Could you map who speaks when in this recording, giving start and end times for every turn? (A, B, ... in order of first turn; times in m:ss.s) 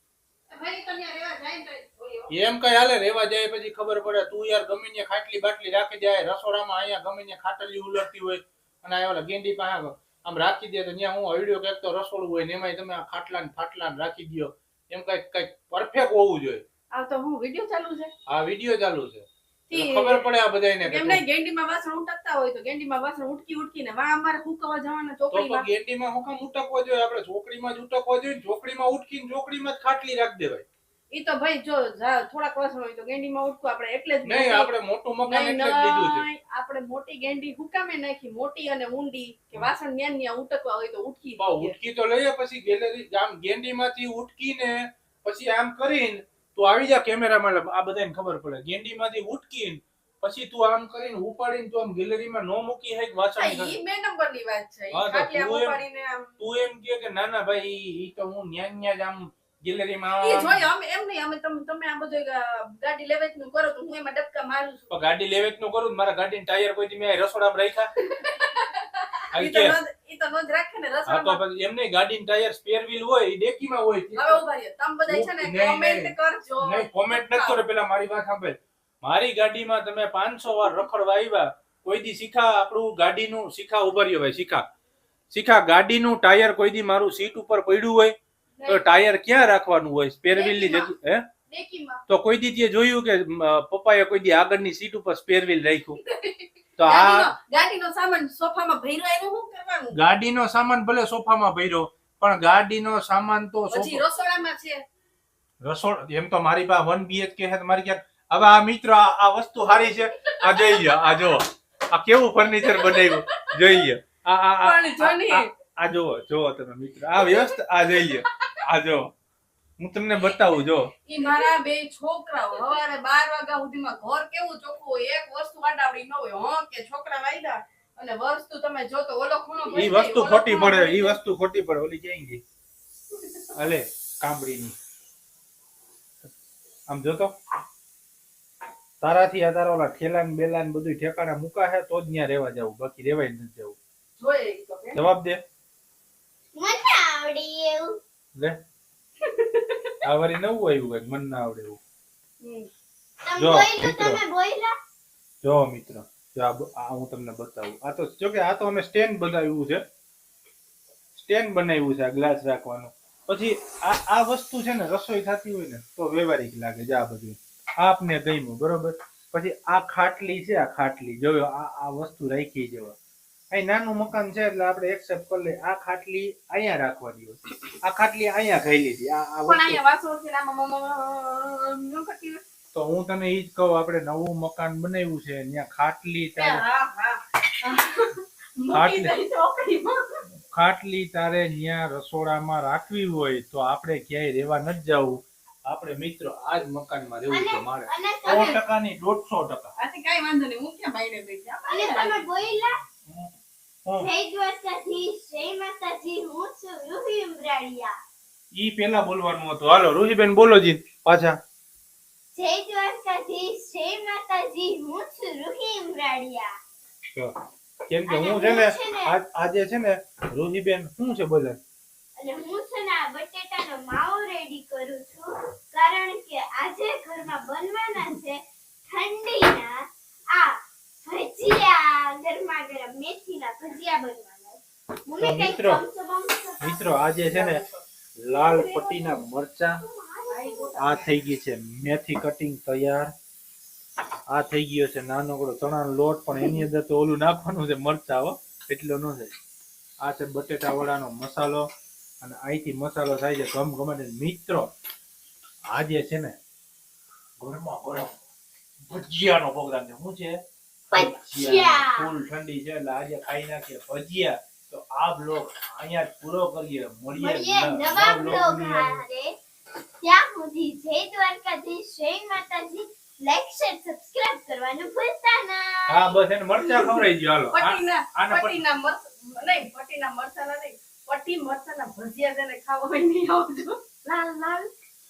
0:00.5-0:02.3 A
0:02.3-0:16.6 B
0:16.9-0:18.1 A
0:18.3-0:21.2 B
0:19.7-0:20.2 A
0:20.8-0:25.7 A
0:25.3-0:30.6 B
0:31.1-0:34.7 A
0:34.2-0:36.2 B
0:35.2-0:41.8 A
0:41.4-0:53.7 B
0:53.4-0:56.3 A
0:54.9-0:55.8 B
0:56.4-1:00.7 B
1:00.2-1:04.8 A
1:04.9-1:07.9 B
1:08.1-1:11.4 A
1:09.3-1:09.8 B
1:11.1-1:14.4 B
1:14.1-1:17.6 A
1:15.1-1:24.6 B
1:25.3-1:28.1 B
1:28.6-1:28.8 A
1:28.7-1:31.2 B
1:30.3-1:30.9 A
1:31.5-1:32.0 A
1:32.1-1:36.0 B
1:36.0-1:40.0 A
1:36.8-1:37.3 B
1:39.9-1:44.0 B
1:43.7-1:44.8 A
1:45.6-1:59.1 B
1:50.5-1:51.0 A
1:52.6-1:53.8 A
1:54.6-1:55.5 A
1:57.2-1:57.5 A
1:59.8-2:00.9 B
2:01.1-2:11.2 A
2:09.7-2:12.4 B
2:13.5-2:14.8 B
2:16.9-2:17.3 B
2:19.0-2:23.8 B
2:24.2-2:25.0 A
2:24.9-2:25.4 B
2:26.5-2:28.0 C
2:29.3-2:29.9 A
2:30.0-2:31.8 B
2:32.4-2:32.7 A
2:33.2-2:34.7 C
2:33.4-2:34.2 B
2:35.4-2:39.8 B
2:41.1-2:52.9 B
2:53.5-2:59.8 B
2:59.5-3:02.4 A
3:02.7-3:06.6 B
3:06.4-3:10.2 A
3:08.7-3:09.2 B
3:10.5-3:19.7 B
3:17.3-3:18.5 C
3:18.2-3:18.6 A
3:19.8-3:22.2 A
3:21.7-3:22.7 C
3:23.1-3:23.3 B
3:24.0-3:28.0 C
3:28.6-3:31.4 B
3:32.3-3:36.5 C
3:37.9-3:41.6 B
3:38.1-3:39.1 C
3:42.2-3:57.4 C
3:55.2-3:55.8 B
3:56.6-3:57.6 B
3:58.2-3:59.8 B
3:58.3-3:59.3 C
3:59.8-4:00.8 C
4:00.3-4:01.1 A
4:00.8-4:03.1 B
4:04.3-4:09.3 B
4:10.0-4:11.7 B
4:12.2-4:14.7 B
4:15.7-4:16.4 B
4:17.4-4:18.1 B
4:18.9-4:20.4 B
4:20.9-4:29.0 B
4:20.9-4:22.1 C
4:27.1-4:29.3 C
4:30.0-4:36.2 C
4:35.9-4:38.6 B
4:37.5-4:43.8 A
4:44.0-4:44.7 C